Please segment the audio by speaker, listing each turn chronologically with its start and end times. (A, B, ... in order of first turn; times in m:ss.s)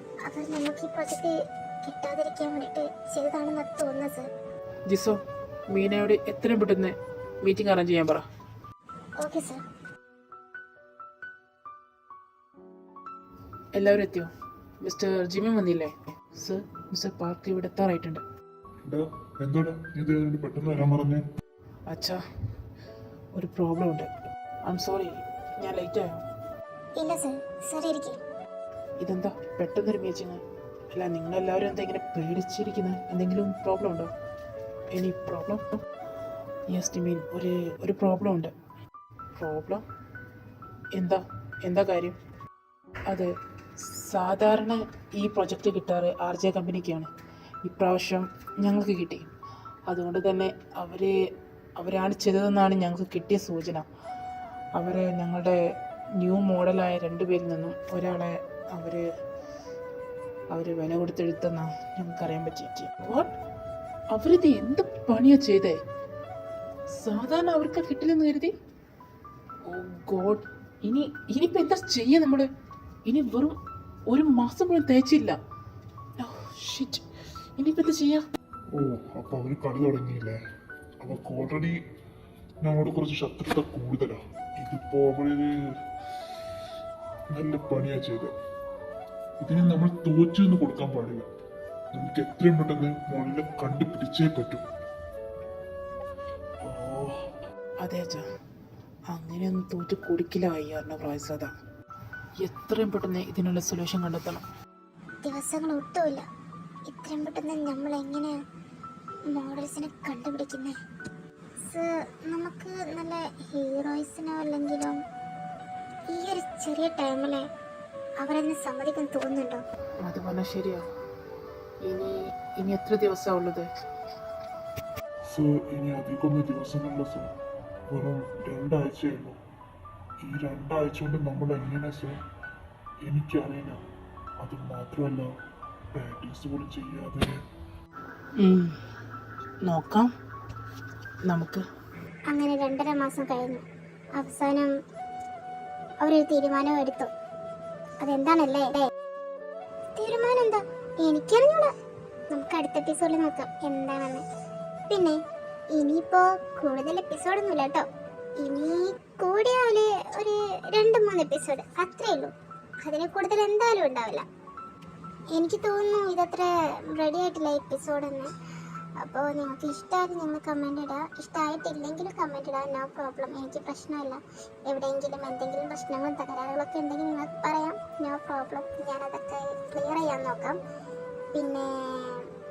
0:00.2-0:04.3 A
0:04.9-0:05.2 B
0:05.7-0:08.2 B
0:09.2-0:09.6 A
0:13.8-0:14.3 B
0:14.8-0:18.2 B
0:18.9-0:21.2 C
0:21.9-0:22.2 B
0:23.4-0:24.1 B
0:24.6-0:26.2 B
0:27.0-0:28.2 A
0:29.0-0:30.4 B
0:30.9-0:34.1 B
0:34.9-0:35.8 B
0:36.7-0:38.5 B
0:39.4-0:39.8 B
0:41.0-0:42.2 B
0:43.1-0:47.1 B
0:47.6-0:49.3 B
0:49.9-0:51.2 B
0:51.8-0:53.9 B
0:54.8-0:55.6 B
0:56.2-0:59.1 B
1:00.5-1:03.3 B
1:04.1-1:05.8 B
1:06.9-1:08.5 B
1:09.7-1:12.5 B
1:13.1-1:13.6 B
1:14.1-1:15.4 B
1:16.2-1:17.1 B
1:17.6-1:18.2 B
1:18.7-1:20.4 C
1:21.0-1:21.8 C
1:22.6-1:25.5 C
1:27.3-1:28.3 C
1:29.4-1:31.3 C
1:31.9-1:34.6 C
1:36.6-1:37.3 C
1:37.8-1:38.3 B
1:39.1-1:41.5 B
1:42.4-1:44.4 B
1:45.2-1:46.3 A
1:46.9-1:48.3 A
1:49.3-1:50.8 A
1:51.6-1:55.0 A
1:56.1-1:57.5 A
1:58.2-1:59.6 A
2:00.0-2:00.8 B
2:01.8-2:03.7 B
2:05.3-2:07.3 C
2:07.9-2:09.4 C
2:10.2-2:12.2 C
2:13.1-2:13.8 C
2:14.4-2:15.3 C
2:15.9-2:17.4 C
2:18.4-2:18.8 B
2:19.7-2:20.1 B
2:21.3-2:21.7 B
2:22.3-2:23.6 A
2:24.2-2:24.7 A
2:26.0-2:27.1 A
2:28.0-2:28.9 A
2:30.0-2:31.7 A
2:32.3-2:34.2 A
2:34.9-2:35.2 A
2:35.7-2:37.9 A
2:38.4-2:42.3 A
2:42.8-2:44.3 A
2:45.3-2:48.3 A
2:49.0-3:00.6 A
3:01.3-3:02.3 A